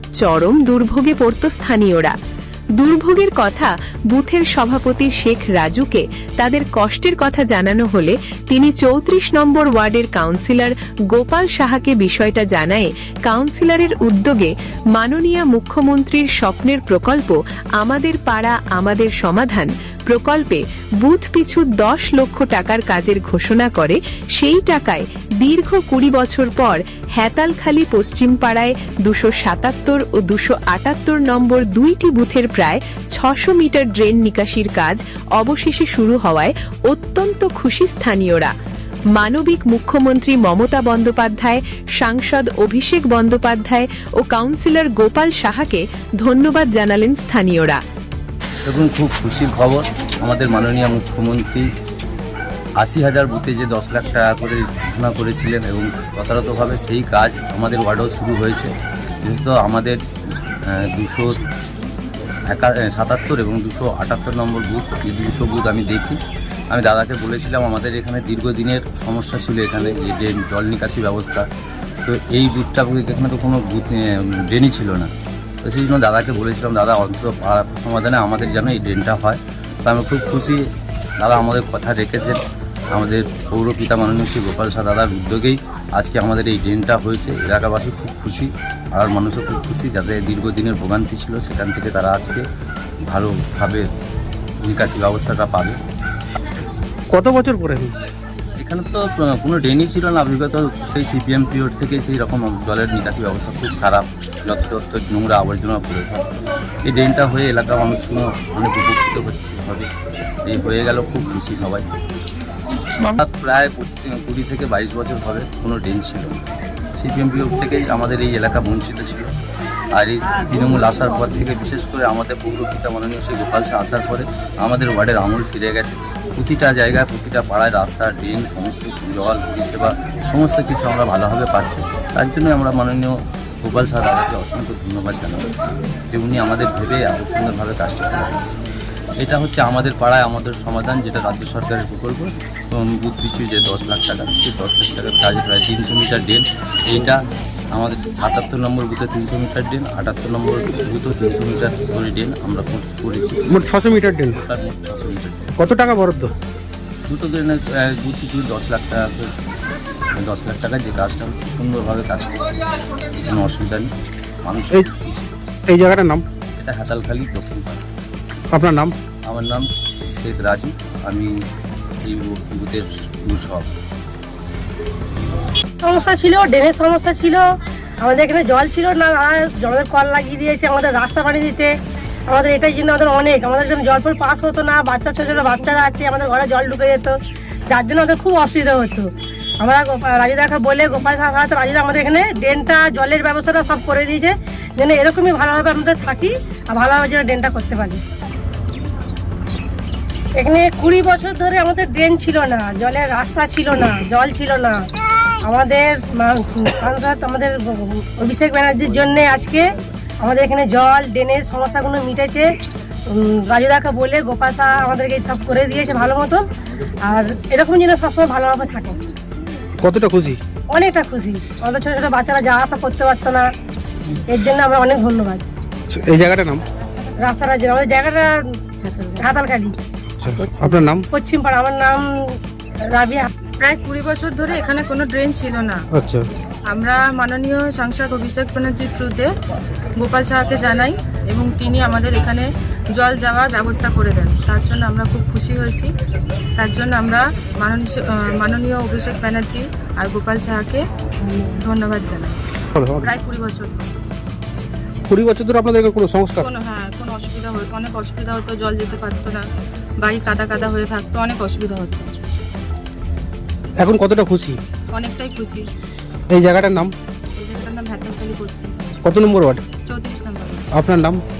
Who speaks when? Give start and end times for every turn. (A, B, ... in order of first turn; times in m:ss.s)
0:00.2-0:02.1 A
0:02.8-0:38.5 A
0:39.1-0:47.8 A
0:48.6-0:51.6 B
0:52.8-0:58.7 B
0:59.2-1:00.0 B
1:00.7-1:01.4 B
1:02.5-1:06.2 B
1:06.7-1:11.4 B
1:12.0-1:15.1 B
1:15.6-1:20.6 B
1:21.2-1:22.4 B
1:22.9-1:32.4 B
1:33.0-1:33.8 B
1:34.6-1:35.8 B
1:37.1-1:37.9 C
1:38.6-1:46.2 B
1:46.8-1:49.9 B
1:50.4-1:51.8 B
1:53.0-1:56.4 B
1:57.0-1:59.3 B
2:00.0-2:15.5 B
2:16.1-2:18.6 B
2:19.2-2:27.2 B
2:27.7-2:33.7 B
2:33.5-2:34.4 C
2:34.4-2:35.6 B
2:35.6-2:36.3 C
2:37.1-2:39.3 B
2:40.2-2:43.9 B
2:44.4-2:45.3 B
2:45.7-2:46.2 C
2:46.6-2:47.8 B
2:48.5-2:48.9 C
2:49.2-2:51.3 B
2:52.0-2:53.7 B
2:55.8-2:57.4 D
2:58.0-3:01.7 D
3:02.3-3:07.2 D
3:07.7-3:09.1 D
3:09.6-3:18.0 D
3:20.4-3:24.8 D
3:25.4-3:32.5 D
3:33.1-3:36.4 D
3:37.0-3:39.0 D
3:39.8-3:40.4 C
3:40.7-3:43.5 D
3:44.3-3:45.4 D
3:45.9-3:46.6 C
3:47.2-3:49.7 D
3:50.2-3:51.0 C
3:51.1-3:52.4 D
3:52.9-3:53.3 D
3:53.6-3:55.8 E
3:55.9-3:56.3 C
3:56.7-3:59.3 E
4:00.0-4:05.9 E
4:06.6-4:12.4 E
4:12.7-4:13.1 C
4:13.0-4:13.7 E
4:15.1-4:16.5 C
4:16.4-4:19.5 E
4:20.0-4:22.1 E
4:23.8-4:24.6 C
4:24.9-4:25.7 E
4:26.3-4:26.9 C
4:27.3-4:28.9 E
4:29.0-4:29.6 C
4:29.8-4:30.7 E
4:30.7-4:31.2 C